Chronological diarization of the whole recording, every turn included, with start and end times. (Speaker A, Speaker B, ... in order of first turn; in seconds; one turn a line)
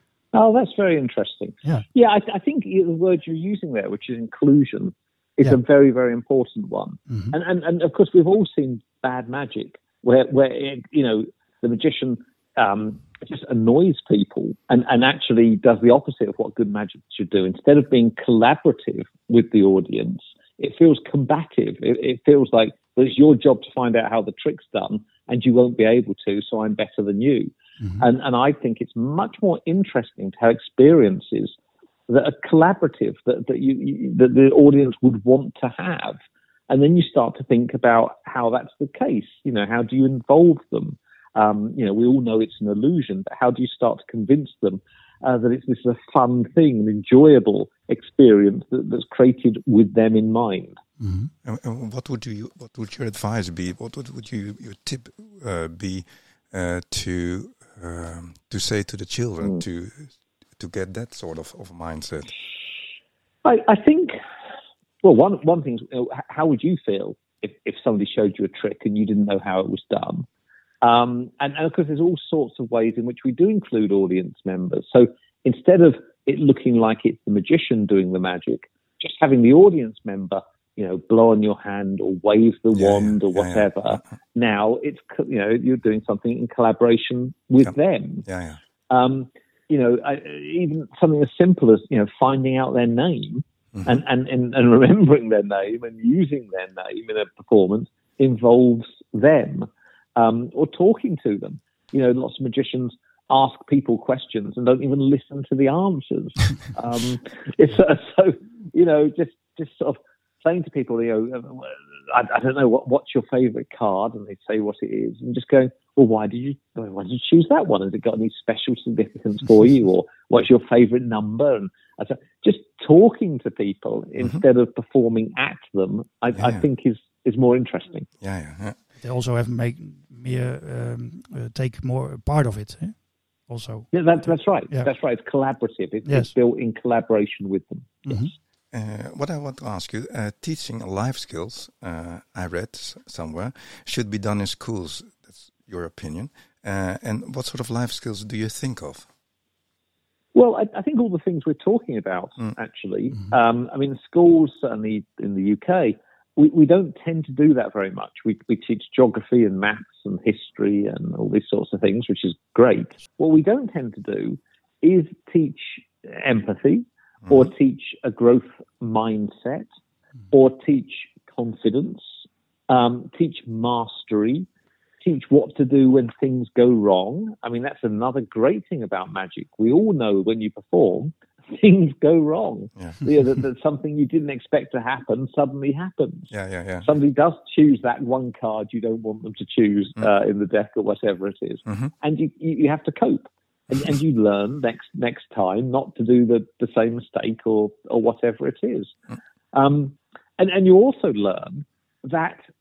Speaker A: 0.3-31.5
Speaker A: 32.1-36.2
Speaker A: 36.7-50.8
Speaker B: 51.0-51.3
Speaker C: 51.4-62.3
Speaker A: 63.4-64.2
Speaker A: 65.0-70.3
Speaker A: 70.8-88.2
Speaker C: 82.7-84.0
Speaker C: 88.3-88.6
Speaker A: 88.9-128.1
Speaker C: 126.3-126.7
Speaker C: 128.2-128.8
Speaker B: 129.0-133.0
Speaker B: 133.5-134.9
Speaker A: 133.9-138.2
Speaker B: 138.1-138.3
Speaker C: 138.7-149.1
Speaker A: 150.3-169.7
Speaker A: 170.3-172.0
Speaker A: 172.7-174.5
Speaker A: 175.0-186.3
Speaker C: 186.3-186.9
Speaker A: 186.8-198.9
Speaker C: 191.7-191.9
Speaker A: 199.5-202.4